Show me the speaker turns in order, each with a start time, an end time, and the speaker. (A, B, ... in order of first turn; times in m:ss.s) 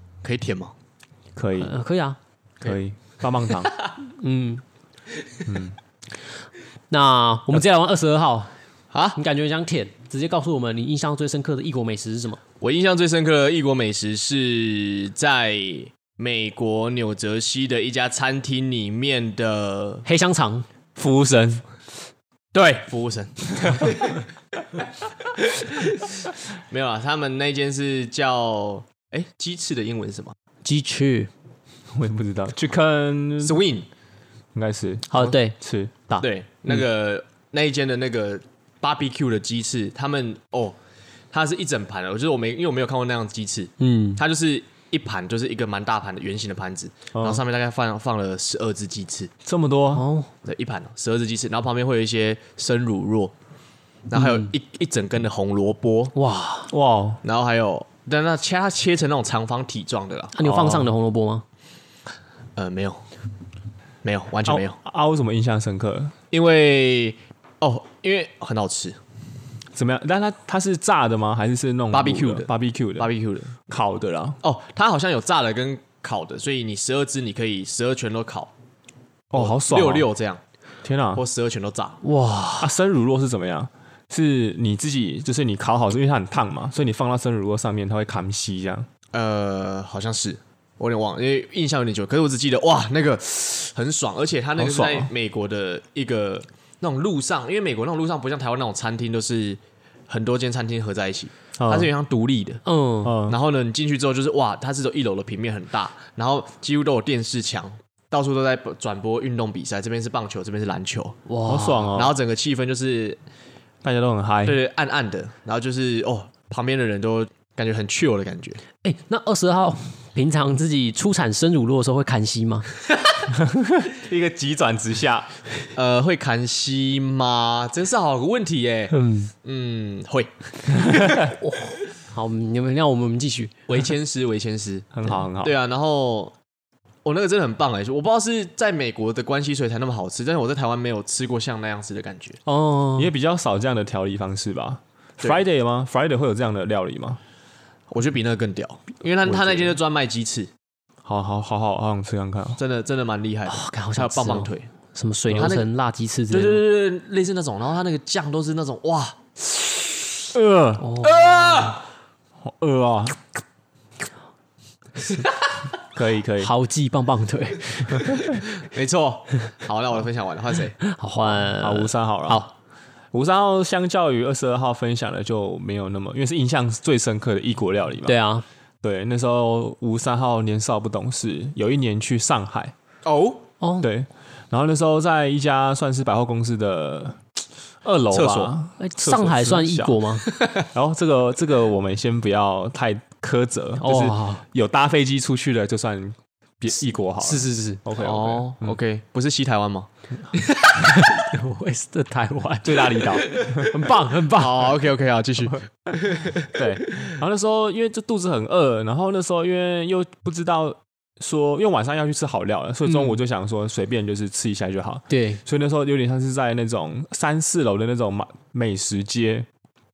0:00.2-0:00.7 A
0:01.3-0:01.7 B
0:01.6-0:02.2 C
0:02.6-0:03.7 B
0:04.0-0:04.6 C
0:05.4-0:05.8 B
0:06.9-0:08.5 C
0:08.9-0:09.2 A
0:09.1-0:12.4 C
0:12.6-0:20.0 A
0:20.0-0:20.6 C
0:21.0-0:21.6 B
0:22.5-0:24.2 A
0:26.7-0:30.3 A
0:30.6-0:31.3 C
0:31.9-0:33.6 B
0:33.4-0:33.9 A
0:34.5-0:36.2 B
0:35.1-0:35.6 C
0:36.2-0:40.8 A
0:41.3-0:49.3 A
0:43.8-0:44.2 C
0:47.1-0:47.4 B
0:49.4-0:50.0 B
0:49.9-0:50.3 C
0:50.4-0:53.3 A
0:54.1-0:56.1 A
0:54.2-0:54.4 C
0:56.1-0:56.7 C
0:56.7-0:57.2 B
0:57.2-1:00.4 A
1:00.3-1:01.4 C
1:00.4-1:00.9 B
1:02.6-1:03.0 A
1:04.0-1:04.8 A
1:04.5-1:06.1 B
1:06.3-1:09.0 A
1:09.7-1:13.1 B
1:11.9-1:13.5 A
1:13.7-1:14.4 B
1:14.4-1:18.5 A
1:19.3-1:20.1 B
1:19.3-1:20.4 A
1:20.8-1:21.2 B
1:21.2-1:22.0 A
1:22.0-1:22.7 C
1:22.6-1:28.9 B
1:29.1-1:42.6 A
1:34.6-1:35.1 B
1:41.6-1:41.9 B
1:42.6-1:43.1 C
1:43.0-1:43.4 B
1:43.3-1:51.2 A
1:51.3-1:52.0 C
1:51.4-1:52.1 B
1:51.9-1:53.2 A
1:53.8-1:54.6 B
1:54.4-1:58.6 A
1:58.8-2:02.7 C
2:03.3-2:05.3 B
2:05.7-2:08.9 A
2:08.9-2:09.3 C
2:09.4-2:10.9 A
2:11.4-2:13.6 C
2:13.7-2:16.3 A
2:14.9-2:15.5 B
2:17.0-2:22.4 A
2:22.4-2:23.1 C
2:23.0-2:27.2 B
2:27.9-2:30.5 A
2:29.2-2:29.8 B
2:31.0-2:32.6 B
2:32.6-2:34.7 A
2:33.5-2:36.6 C
2:35.3-2:35.7 A
2:36.3-2:39.4 A
2:40.3-2:40.8 B
2:40.8-2:41.7 C
2:41.0-2:41.8 A
2:42.4-2:43.2 B
2:45.9-2:46.5 B
2:46.4-2:48.2 C
2:48.2-2:50.8 A
2:50.8-2:52.5 C
2:51.5-2:52.4 B
2:53.1-2:58.1 B
2:58.0-2:58.4 C
2:58.8-3:02.7 B
3:03.0-3:03.4 A
3:03.6-3:03.9 C
3:03.8-3:07.2 B
3:07.8-3:10.0 B
3:08.1-3:08.5 A
3:08.8-3:10.2 C
3:10.3-3:10.6 A
3:10.6-3:18.7 B
3:13.8-3:14.4 C
3:17.2-3:17.8 C
3:18.0-3:19.9 A
3:20.7-3:24.7 C
3:22.6-3:23.8 B
3:24.4-3:26.5 A
3:26.4-3:39.5 B
3:32.8-3:33.2 C
3:35.1-3:35.4 C